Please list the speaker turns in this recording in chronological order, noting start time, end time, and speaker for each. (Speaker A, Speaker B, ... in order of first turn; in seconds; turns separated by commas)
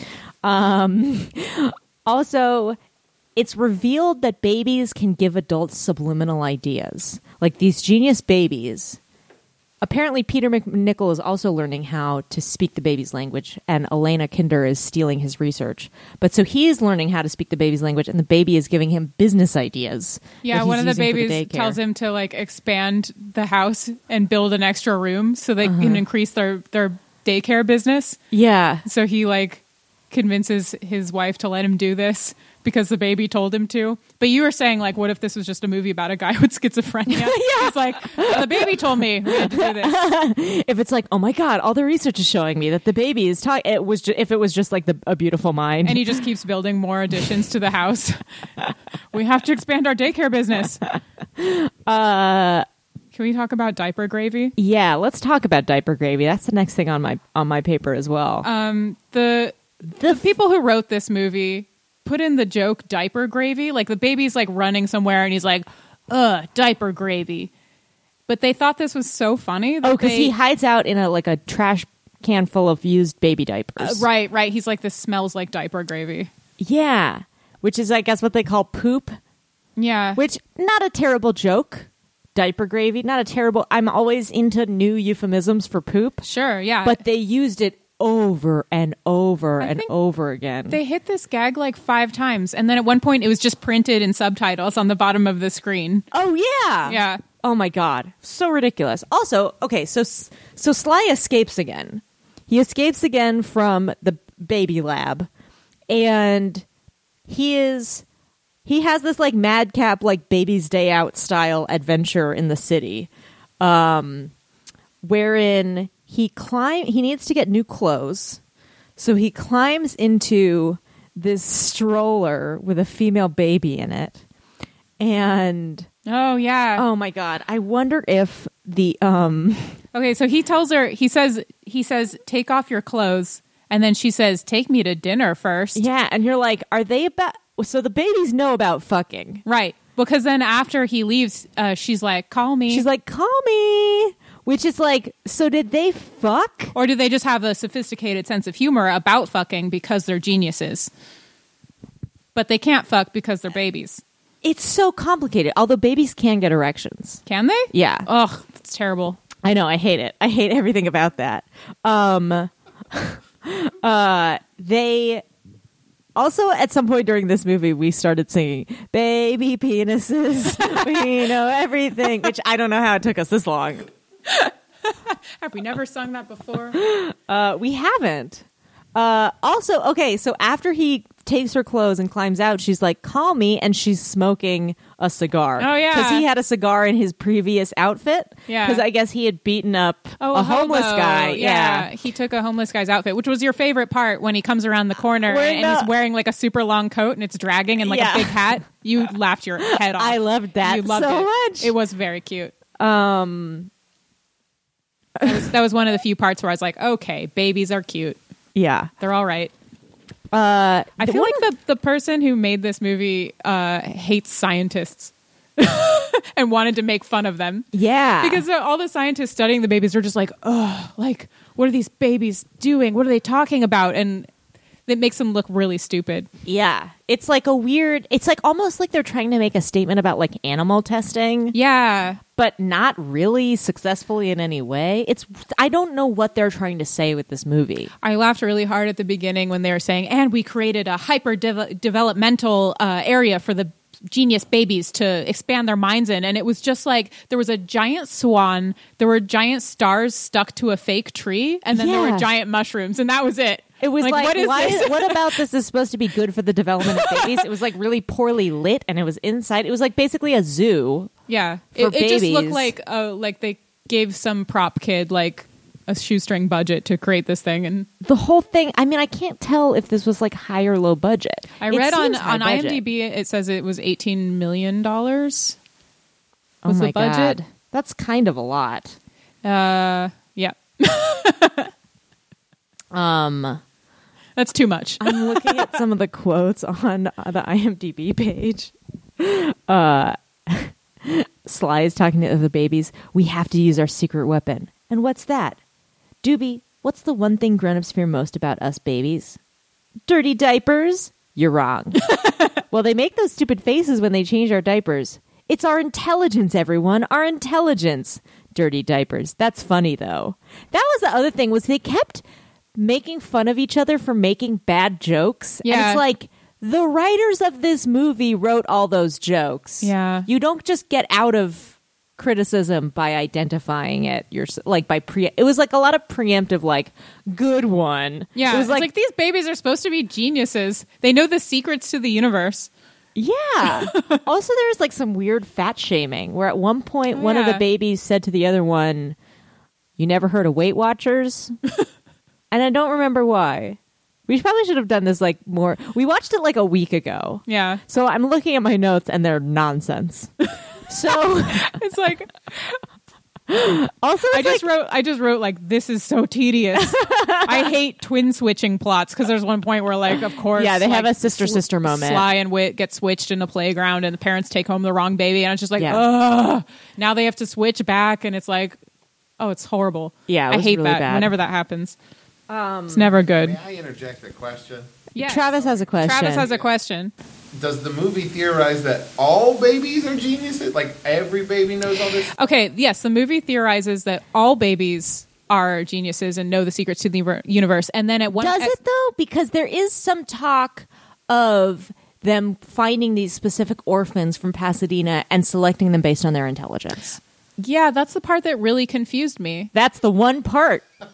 Speaker A: 0.4-2.8, Speaker A: 3.4-9.0, Speaker A: 9.8-21.8, Speaker B: 20.4-28.2, Speaker A: 25.6-26.0, Speaker A: 28.3-28.9, Speaker B: 28.9-40.0, Speaker A: 37.1-46.2, Speaker B: 45.9-48.2, Speaker B: 49.1-50.9, Speaker A: 51.4-52.7, Speaker B: 53.1-54.5, Speaker A: 54.6-58.5, Speaker B: 58.4-67.5, Speaker A: 59.9-60.2, Speaker B: 68.3-70.3, Speaker A: 69.8-74.1, Speaker B: 73.8-76.3, Speaker A: 76.6-79.2, Speaker B: 79.8-80.2, Speaker A: 80.2-86.2, Speaker B: 86.2-87.0, Speaker A: 86.8-90.8, Speaker B: 89.6-89.9, Speaker B: 90.7-96.1, Speaker A: 96.1-105.3, Speaker B: 96.8-97.2, Speaker A: 105.9-106.7, Speaker A: 107.3-108.0, Speaker A: 108.7-114.3, Speaker A: 115.0-118.4, Speaker A: 119.0-124.2, Speaker A: 125.0-125.9, Speaker B: 126.1-126.8, Speaker A: 126.8-129.8, Speaker B: 129.9-135.8, Speaker A: 135.8-139.4, Speaker B: 139.4-142.8, Speaker A: 142.7-146.7, Speaker B: 146.7-150.9, Speaker B: 152.3-154.0, Speaker A: 154.4-158.1, Speaker B: 157.2-159.2, Speaker A: 159.4-165.2, Speaker A: 166.2-173.9, Speaker B: 174.3-176.8, Speaker A: 176.7-191.9, Speaker B: 185.6-186.2, Speaker B: 188.5-188.8, Speaker B: 190.2-202.5, Speaker A: 195.2-195.9, Speaker A: 197.8-198.5, Speaker A: 199.7-201.8, Speaker A: 202.8-203.7, Speaker A: 205.2-205.4, Speaker B: 205.2-208.2, Speaker A: 208.5-208.9, Speaker B: 209.0-209.5, Speaker A: 210.3-211.4, Speaker B: 211.0-217.7, Speaker A: 217.7-218.4, Speaker B: 218.2-224.3, Speaker B: 224.9-226.3, Speaker A: 226.4-231.5, Speaker B: 231.5-232.2, Speaker A: 232.3-237.9, Speaker B: 238.0-255.3, Speaker A: 251.7-252.3, Speaker A: 253.8-261.1, Speaker B: 257.0-257.3, Speaker B: 261.3-267.9, Speaker A: 261.8-262.7, Speaker A: 268.0-272.8, Speaker B: 271.6-275.6, Speaker A: 276.6-279.0, Speaker B: 276.6-277.4, Speaker B: 279.4-281.7, Speaker A: 282.9-283.6, Speaker B: 284.4-285.7, Speaker A: 285.0-295.6, Speaker A: 296.2-299.4, Speaker A: 300.1-302.1, Speaker B: 302.1-302.5, Speaker A: 302.7-312.2, Speaker A: 312.8-328.9, Speaker B: 315.6-316.0, Speaker B: 319.8-320.3, Speaker B: 328.4-332.7, Speaker A: 333.1-339.2, Speaker B: 333.6-334.2, Speaker B: 337.1-337.6, Speaker A: 340.0-341.5, Speaker A: 342.5-350.3, Speaker B: 347.5-347.8, Speaker A: 350.9-351.7, Speaker B: 351.5-352.8, Speaker A: 353.5-354.6, Speaker B: 354.3-368.8, Speaker A: 356.8-357.7, Speaker A: 360.5-362.2, Speaker A: 365.8-366.0, Speaker B: 369.4-372.0, Speaker A: 370.3-371.3, Speaker A: 372.5-373.1, Speaker B: 372.9-373.6, Speaker C: 373.3-376.7, Speaker B: 375.1-375.5, Speaker A: 375.2-376.5, Speaker B: 376.0-377.1, Speaker C: 377.5-382.4, Speaker B: 382.3-388.8, Speaker A: 388.4-397.2, Speaker B: 397.6-399.7, Speaker A: 399.7-400.9